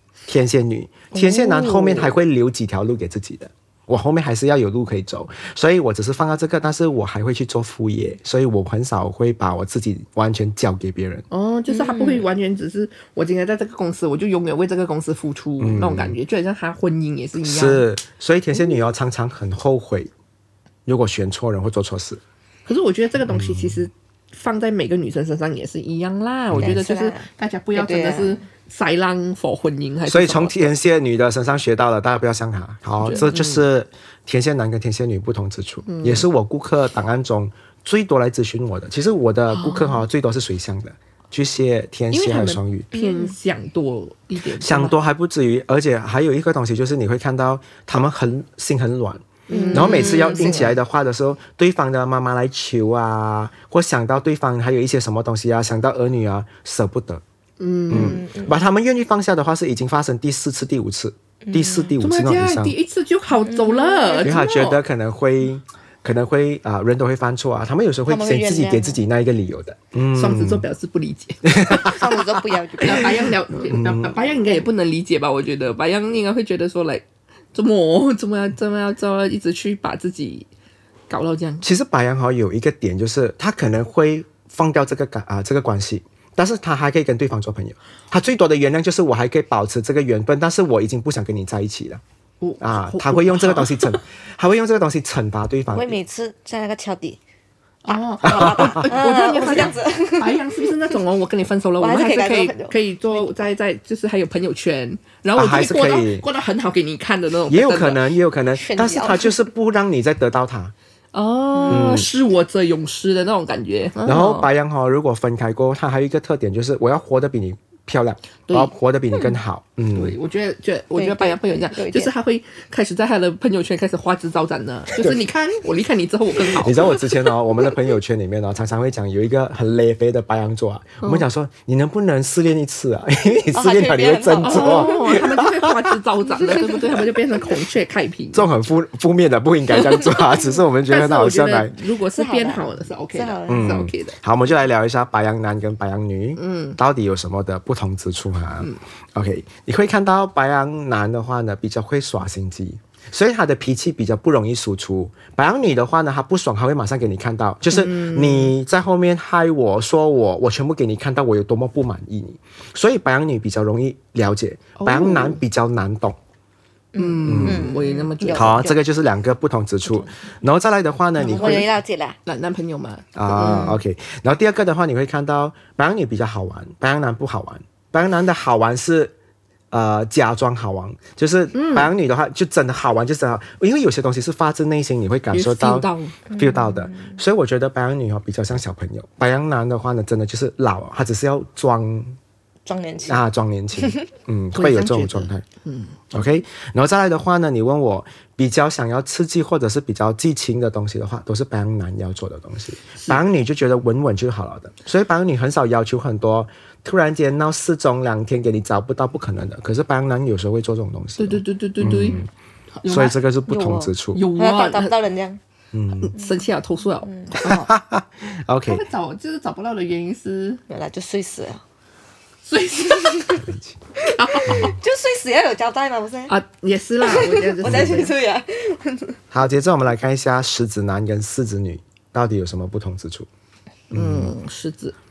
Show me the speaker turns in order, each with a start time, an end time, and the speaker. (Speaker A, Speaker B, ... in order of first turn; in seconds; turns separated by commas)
Speaker A: 0.3-11.2, Speaker B: 1.1-2.1, Speaker B: 11.3-17.9, Speaker C: 11.7-12.2, Speaker A: 15.6-16.2, Speaker A: 17.4-20.1, Speaker A: 20.9-22.2, Speaker B: 22.7-30.8, Speaker A: 23.2-23.9, Speaker C: 26.6-28.4, Speaker A: 30.1-42.9, Speaker B: 33.0-33.6, Speaker B: 35.9-36.3, Speaker B: 39.5-40.0, Speaker B: 42.1-45.0, Speaker C: 42.9-43.3, Speaker A: 44.6-57.2, Speaker C: 49.5-50.7, Speaker B: 49.5-50.8, Speaker B: 57.6-58.2, Speaker A: 57.9-62.8, Speaker C: 57.9-58.6, Speaker C: 61.4-61.9, Speaker B: 62.0-64.8, Speaker C: 63.5-64.4, Speaker A: 64.2-70.7, Speaker C: 68.1-69.0, Speaker B: 70.1-71.8, Speaker A: 71.5-72.2, Speaker C: 71.7-73.3, Speaker B: 72.8-80.5, Speaker A: 73.6-74.2, Speaker B: 81.1-81.7, Speaker A: 81.6-92.0, Speaker B: 92.4-94.0, Speaker A: 92.6-96.0, Speaker C: 95.7-97.2, Speaker B: 97.8-108.1, Speaker C: 98.2-100.7, Speaker A: 98.2-98.8, Speaker C: 101.8-102.8, Speaker A: 105.3-106.3, Speaker A: 107.5-110.7, Speaker C: 108.5-109.4, Speaker B: 111.1-114.5, Speaker C: 111.5-111.9, Speaker A: 111.7-112.1, Speaker A: 114.0-120.2, Speaker B: 118.5-118.7, Speaker B: 119.9-127.2, Speaker C: 121.0-122.1, Speaker A: 126.6-135.9, Speaker B: 131.0-131.3, Speaker C: 133.5-135.1, Speaker B: 134.4-138.5, Speaker A: 138.3-141.8, Speaker B: 140.9-144.2, Speaker C: 142.1-143.8, Speaker A: 143.5-166.2, Speaker B: 146.4-146.8, Speaker B: 157.7-158.5, Speaker B: 164.8-165.4, Speaker C: 166.9-168.8, Speaker B: 167.0-168.7, Speaker A: 167.2-167.7, Speaker A: 168.3-171.7, Speaker B: 171.2-171.7, Speaker C: 171.3-172.2, Speaker B: 172.3-173.8, Speaker A: 173.2-179.1, Speaker C: 173.3-173.8, Speaker A: 179.7-192.2, Speaker B: 181.5-181.9, Speaker B: 185.3-186.2, Speaker C: 186.3-187.2, Speaker C: 192.7-193.3, Speaker A: 193.1-195.4, Speaker C: 193.8-194.1, Speaker B: 194.6-195.9, Speaker A: 196.1-212.3, Speaker B: 211.2-212.2, Speaker B: 212.8-213.2, Speaker A: 212.9-214.2, Speaker C: 213.5-215.4, Speaker B: 214.1-215.0, Speaker A: 215.7-216.1, Speaker B: 216.0-217.7, Speaker C: 217.0-217.7, Speaker A: 217.3-218.8, Speaker B: 218.7-220.6, Speaker C: 220.7-221.6, Speaker B: 222.4-223.5, Speaker A: 223.4-223.8, Speaker C: 224.0-226.3, Speaker B: 224.0-224.8, Speaker A: 224.5-224.8, Speaker B: 226.3-228.2, Speaker C: 227.0-229.2, Speaker A: 227.7-228.0, Speaker A: 229.3-233.3, Speaker B: 233.9-234.9, Speaker A: 233.9-234.3